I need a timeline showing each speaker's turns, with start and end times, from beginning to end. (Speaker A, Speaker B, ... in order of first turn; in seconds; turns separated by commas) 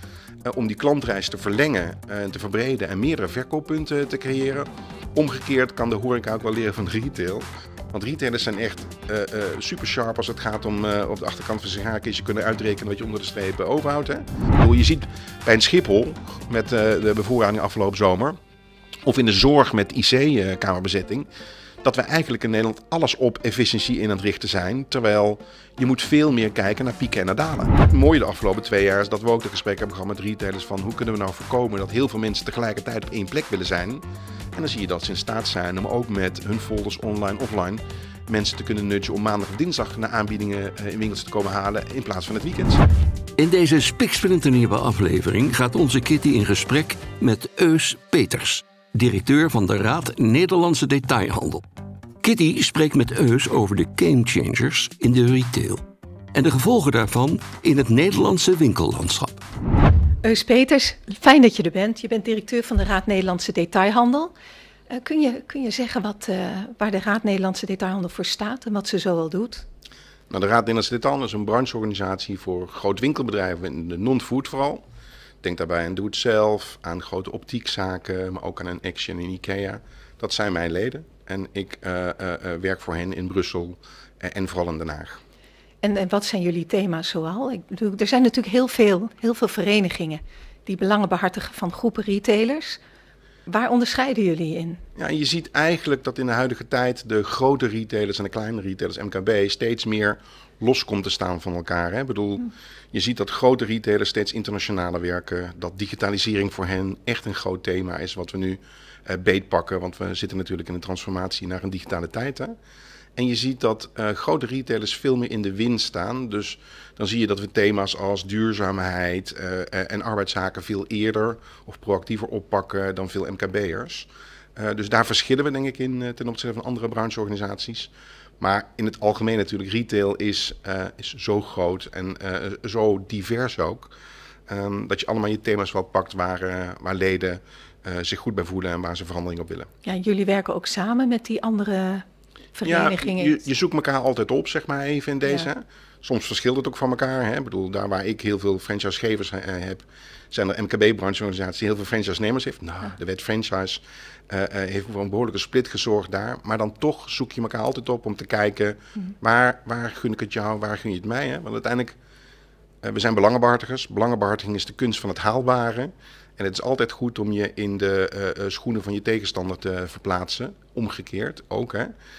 Speaker A: 0.4-18.4, Speaker A: 19.0-21.3, Speaker A: 21.8-34.0, Speaker A: 34.5-42.9, Speaker B: 43.4-51.6, Speaker B: 52.2-55.8, Speaker B: 56.3-59.4, Speaker C: 60.2-64.3, Speaker C: 64.9-69.6, Speaker A: 70.3-74.8, Speaker A: 75.4-85.2, Speaker C: 85.8-92.8, Speaker C: 93.5-94.8, Speaker A: 95.0-112.5, Speaker A: 113.2-133.9, Speaker A: 134.5-139.7, Speaker C: 139.8-143.4, Speaker A: 142.6-161.9, Speaker A: 162.8-171.9